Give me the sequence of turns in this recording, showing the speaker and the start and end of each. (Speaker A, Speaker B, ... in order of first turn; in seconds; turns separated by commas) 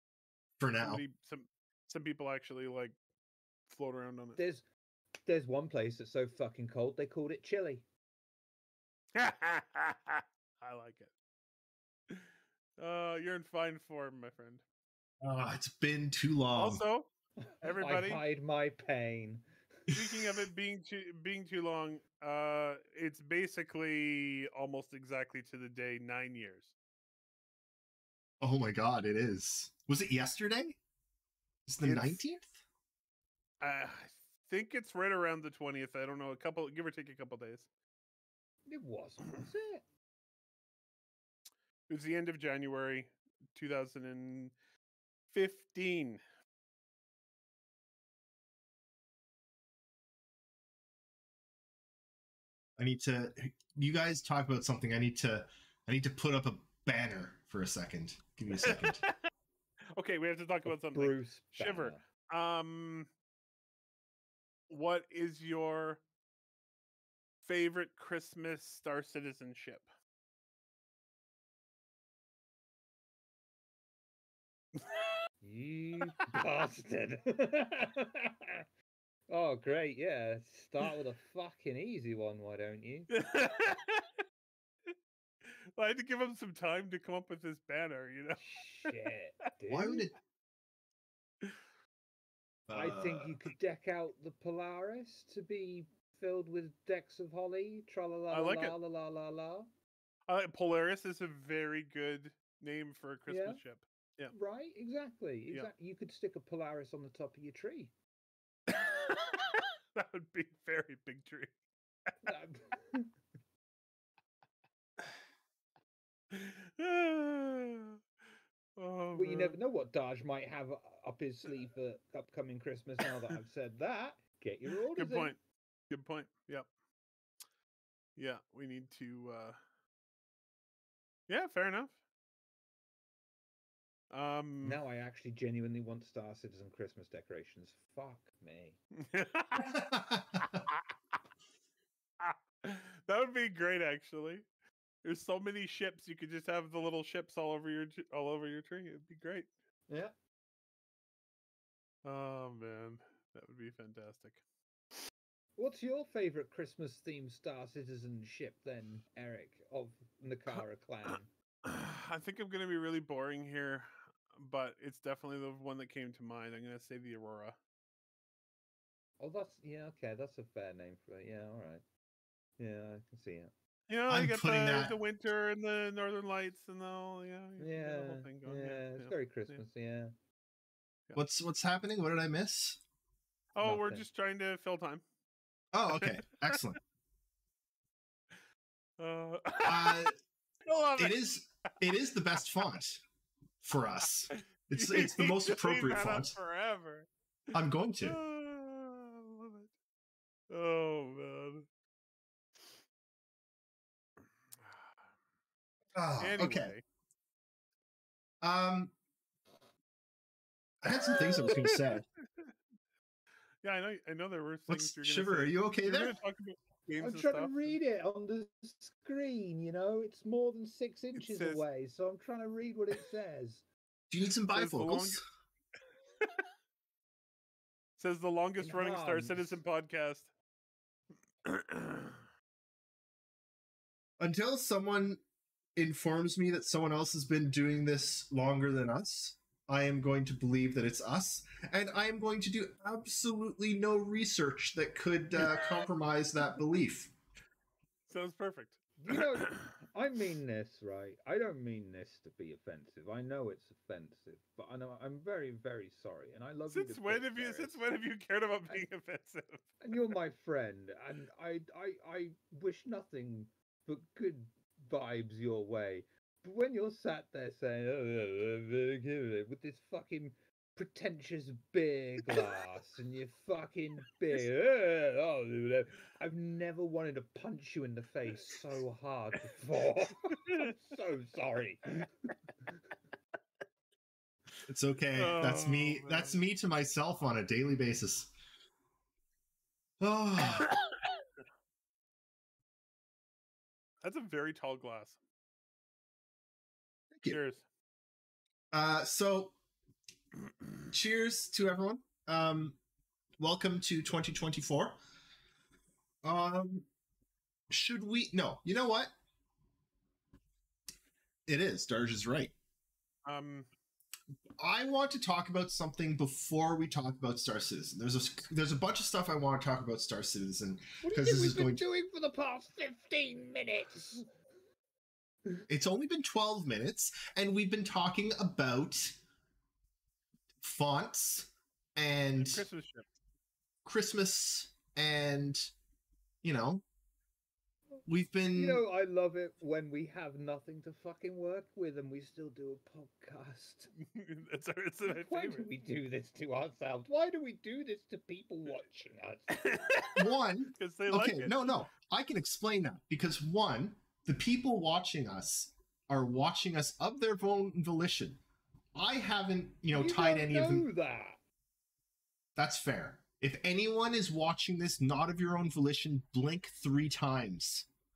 Speaker A: 0.6-1.0, Speaker B: 0.8-3.0, Speaker B: 3.7-4.4, Speaker C: 4.4-4.7, Speaker C: 5.2-7.9, Speaker B: 9.2-11.1, Speaker B: 12.8-14.6, Speaker A: 15.2-16.8, Speaker B: 16.6-17.1, Speaker C: 17.5-19.5, Speaker B: 17.6-18.2, Speaker B: 19.9-26.7, Speaker A: 28.4-30.8, Speaker A: 31.7-32.5, Speaker B: 31.8-32.2, Speaker B: 33.6-37.7, Speaker C: 38.7-39.9, Speaker B: 41.9-44.5, Speaker B: 45.3-46.2, Speaker A: 52.8-59.0, Speaker B: 58.5-59.3, Speaker B: 60.0-63.1, Speaker C: 60.6-62.0, Speaker B: 64.7-66.0, Speaker B: 67.4-69.9, Speaker B: 74.8-75.0, Speaker C: 75.4-78.6, Speaker C: 79.3-83.1, Speaker B: 83.1-84.2, Speaker B: 85.5-88.9, Speaker C: 88.4-90.1, Speaker A: 89.7-90.1, Speaker A: 92.7-93.3, Speaker C: 92.7-99.7, Speaker B: 98.3-98.8, Speaker B: 100.3-104.3, Speaker C: 103.3-103.6, Speaker C: 104.3-107.9, Speaker B: 108.7-111.5, Speaker C: 112.2-113.1, Speaker B: 116.3-118.0, Speaker B: 118.8-119.6, Speaker C: 119.1-125.4, Speaker B: 125.0-125.4, Speaker B: 125.9-126.7, Speaker B: 128.2-129.6, Speaker B: 131.3-132.0, Speaker B: 134.1-134.8, Speaker C: 134.6-138.8, Speaker B: 139.0-139.8, Speaker A: 139.6-140.6, Speaker B: 142.2-144.5, Speaker B: 145.0-149.5, Speaker C: 149.9-150.1, Speaker B: 152.1-154.4, Speaker C: 155.6-161.3, Speaker B: 161.7-167.6, Speaker C: 169.2-171.8, Speaker C: 172.6-173.5, Speaker B: 173.9-179.6, Speaker A: 174.1-175.0, Speaker C: 177.6-180.1, Speaker A: 181.2-182.8, Speaker B: 183.6-185.0, Speaker C: 183.6-184.1, Speaker A: 185.7-186.8, Speaker B: 185.9-186.7, Speaker B: 189.0-190.1, Speaker A: 189.7-190.2, Speaker B: 190.7-191.7, Speaker A: 191.0-193.0, Speaker A: 193.6-196.4, Speaker B: 194.3-197.1, Speaker A: 197.5-198.2, Speaker B: 198.0-199.7, Speaker B: 200.5-201.7, Speaker B: 204.6-205.1, Speaker A: 205.9-206.8, Speaker B: 206.2-206.8, Speaker A: 208.4-208.9, Speaker A: 210.8-212.1, Speaker B: 210.9-212.5, Speaker B: 213.6-217.8, Speaker A: 214.7-216.2, Speaker C: 217.0-223.7, Speaker B: 221.2-221.6, Speaker A: 224.1-225.2, Speaker B: 224.5-225.2, Speaker B: 228.0-230.3, Speaker C: 228.6-229.6, Speaker B: 231.4-232.2, Speaker A: 234.2-235.2, Speaker A: 235.8-247.1, Speaker B: 248.1-249.5, Speaker C: 249.0-257.8, Speaker B: 256.7-260.0, Speaker C: 259.8-282.1, Speaker A: 284.7-288.3, Speaker B: 285.1-286.4, Speaker A: 290.0-290.7, Speaker B: 290.4-291.0, Speaker B: 294.0-295.2, Speaker A: 297.1-297.4, Speaker B: 297.3-297.6, Speaker A: 298.7-299.6, Speaker A: 300.9-302.8, Speaker A: 303.4-305.0, Speaker A: 306.2-306.9, Speaker A: 307.7-309.1, Speaker A: 311.5-312.5, Speaker B: 313.2-313.7, Speaker A: 314.6-321.8, Speaker C: 321.0-324.3, Speaker A: 325.7-329.2, Speaker A: 330.6-332.6, Speaker B: 332.4-333.1, Speaker A: 333.9-335.7, Speaker A: 336.4-336.8, Speaker C: 337.9-343.9, Speaker A: 338.1-338.8, Speaker B: 344.0-345.7, Speaker C: 345.1-349.8, Speaker B: 349.5-351.7, Speaker A: 350.1-358.4, Speaker A: 358.9-360.9, Speaker C: 359.9-361.4, Speaker A: 362.6-367.9